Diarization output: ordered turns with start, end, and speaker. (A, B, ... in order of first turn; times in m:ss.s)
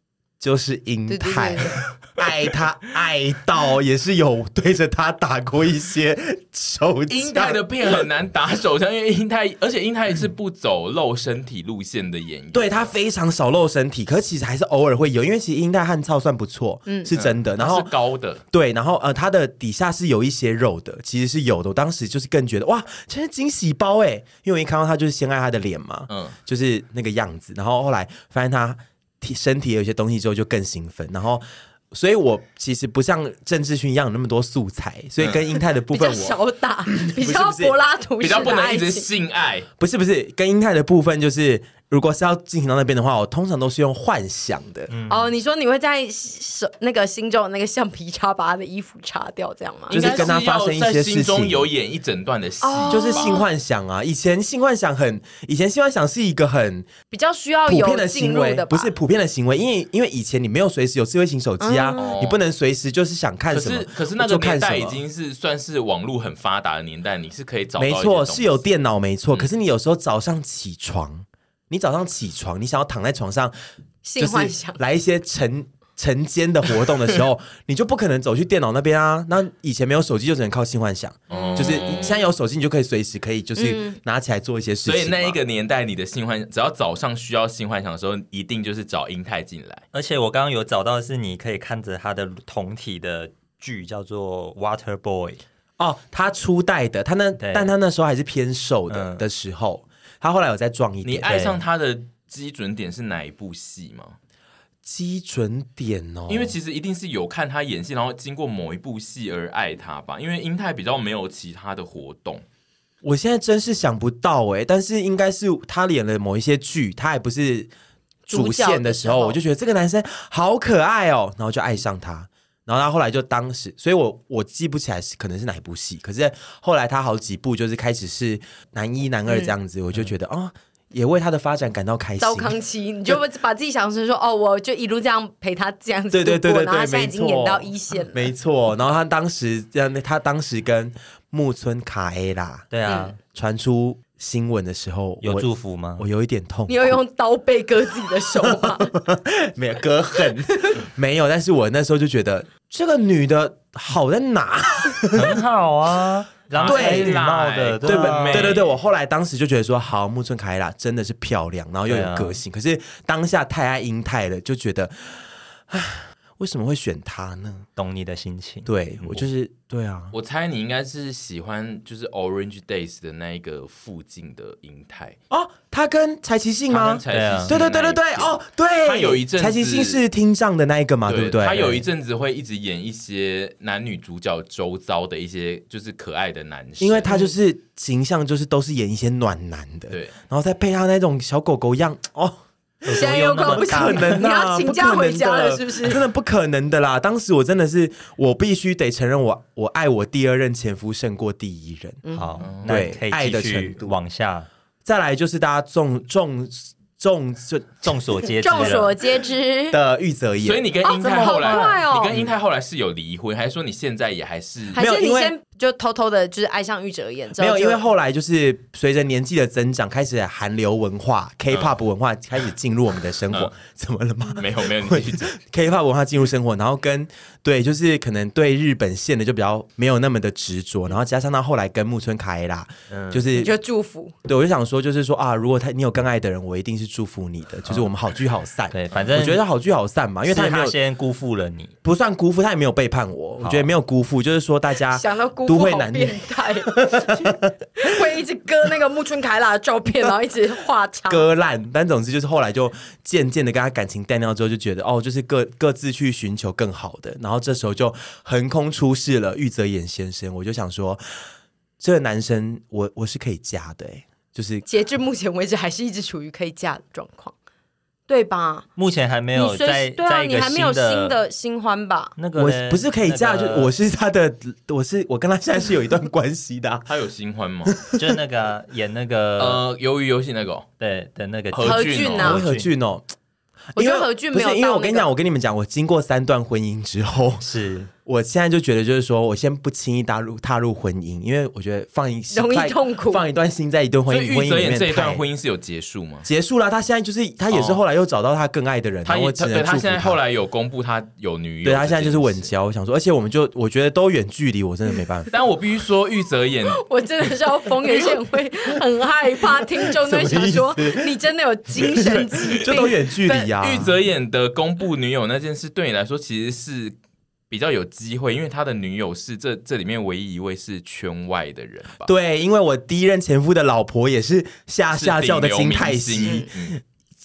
0:00.4-0:08.1 A
0:01.1-0:01.8 B
0:07.1-0:12.9 C
0:12.5-0:17.9 A
0:17.1-0:18.4 C
0:18.5-0:37.7 A
0:26.1-0:26.4 C
0:35.9-0:39.1 B
0:38.2-0:39.7 C
0:39.8-0:44.9 A
0:44.9-0:45.3 D
0:45.1-0:50.3 B
0:49.9-0:53.4 C
0:49.9-0:51.7 A
0:52.6-0:53.4 B
0:52.9-0:56.9 A
0:57.1-0:58.9 B
0:57.7-1:05.0 A
1:01.6-1:02.2 B
1:02.0-1:02.4 C
1:03.5-1:08.6 C
1:07.8-1:13.5 A
1:14.0-1:14.8 B
1:14.2-1:25.4 A
1:21.3-1:22.2 C
1:21.3-1:21.7 B
1:23.6-1:24.0 B
1:24.8-1:29.8 C
1:29.9-1:35.4 D
1:35.8-1:41.4 A
1:37.4-1:37.7 D
1:38.9-1:39.2 D
1:41.0-1:44.2 C
1:41.2-1:41.6 D
1:44.8-1:46.6 A
1:46.3-1:52.4 C
1:53.0-1:57.7 A
1:58.3-1:59.4 B
1:58.3-2:12.6 A
2:09.3-2:09.5 B
2:12.2-2:18.3 B
2:16.1-2:27.0 A
2:22.7-2:23.2 D
2:22.9-2:23.1 B
2:25.2-2:26.0 D
2:26.7-2:28.9 B
2:28.3-2:35.4 A
2:30.5-2:30.8 B
2:35.1-2:38.6 D
2:36.5-2:38.7 C
2:36.6-2:37.2 A
2:37.8-2:47.7 A
2:41.9-2:42.4 D
2:47.8-2:49.2 D
2:48.6-2:50.1 A
2:50.1-2:55.2 C
2:55.3-3:01.8 A
2:56.7-3:00.0 C
2:57.1-2:57.5 D
3:01.1-3:07.1 C
3:06.8-3:22.0 A
3:07.1-3:07.3 B
3:12.8-3:14.2 D
3:12.9-3:16.0 B
3:22.0-3:22.4 B
3:22.1-3:24.5 D
3:22.4-3:22.8 C
3:22.6-3:23.9 A
3:24.8-3:28.8 A
3:27.8-3:28.9 D
3:28.4-3:29.8 B
3:29.7-3:30.7 A
3:30.4-3:34.8 C
3:30.8-3:32.3 B
3:31.0-3:31.8 D
3:34.7-3:37.8 B
3:34.7-3:35.3 A
3:37.4-3:53.5 A
3:44.3-3:45.3 C
3:52.9-3:53.3 D
3:53.3-3:54.1 B
3:54.2-4:00.8 A
3:58.7-3:59.4 D
4:00.3-4:01.7 D
4:01.8-4:07.5 A
4:03.4-4:03.7 D
4:04.9-4:11.3 B
4:11.1-4:21.0 A
4:21.8-4:24.6 A
4:24.7-4:27.3 B
4:28.1-4:28.7 B
4:28.8-4:31.2 D
4:29.3-4:32.1 B
4:32.2-4:33.7 D
4:32.3-4:36.9 A
4:36.9-4:37.8 C
4:37.6-4:38.2 A
4:38.0-4:39.6 D
4:39.4-4:40.7 C
4:40.8-4:42.7 D
4:41.5-4:42.4 C
4:41.6-4:42.4 B
4:42.2-4:43.1 A
4:43.7-4:45.1 B
4:43.8-4:47.5 A
4:47.4-4:47.9 D
4:48.0-4:55.2 A
4:52.3-4:53.2 B
4:54.1-4:56.3 C
4:56.2-5:00.2 A
4:57.5-4:57.8 C
4:59.0-5:02.5 C
5:01.6-5:05.3 A
5:05.3-5:06.8 C
5:06.7-5:12.9 B
5:09.8-5:11.1 A
5:11.8-5:13.9 A
5:13.2-5:16.9 C
5:17.5-5:22.1 C
5:22.0-5:26.8 A
5:24.9-5:26.8 C
5:26.2-5:26.5 B